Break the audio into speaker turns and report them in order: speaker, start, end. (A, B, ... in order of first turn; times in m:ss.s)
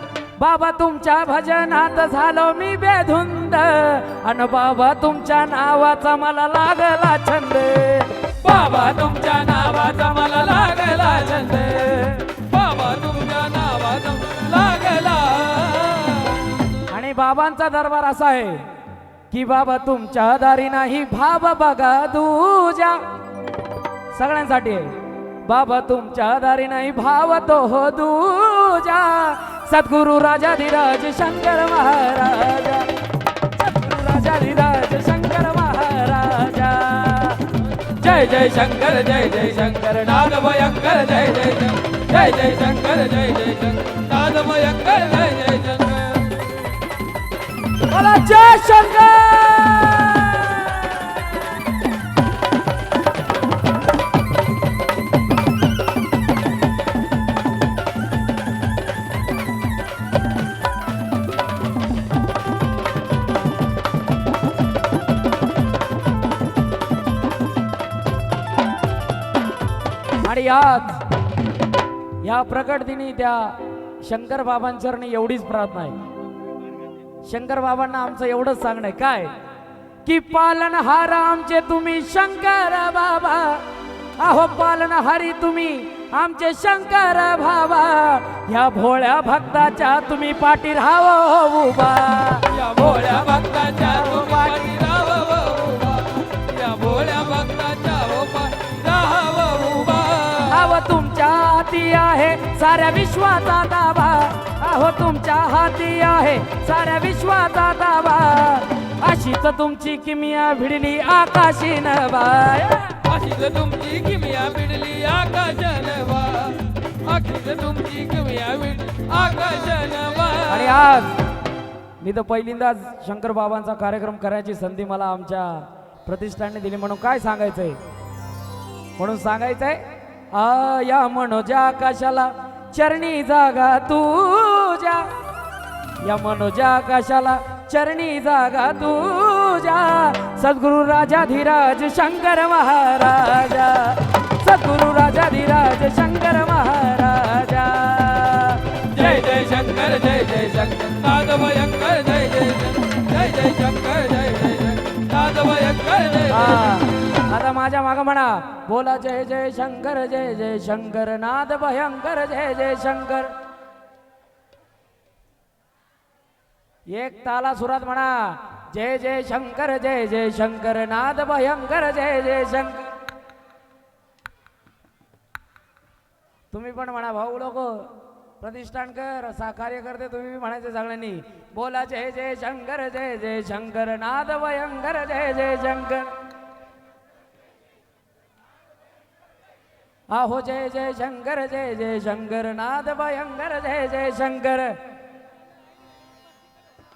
0:00.4-0:12.4 A
0:08.4-0:16.8 B
0:16.8-0:18.7 A
0:19.3-0:23.0 A
0:24.1-0:32.9 A
0:33.5-0:40.5 A
0:40.3-0:46.4 B
0:42.0-0:42.8 A
0:47.9-0:51.4 A
1:10.2-1:11.1 A
1:12.2-1:16.0 A
1:17.2-1:19.3 A
1:20.0-1:23.7 A
1:24.2-1:32.6 A
1:32.5-1:40.6 B
1:34.0-1:34.5 A
1:40.5-1:53.0 A
1:53.0-2:00.8 B
2:00.5-2:01.3 A
2:02.0-2:07.8 A
2:09.0-2:15.1 A
2:16.0-2:29.0 A
2:28.9-2:36.7 B
2:36.3-2:43.4 A
2:46.9-2:52.9 A
2:56.5-3:06.2 A
3:10.1-3:14.8 A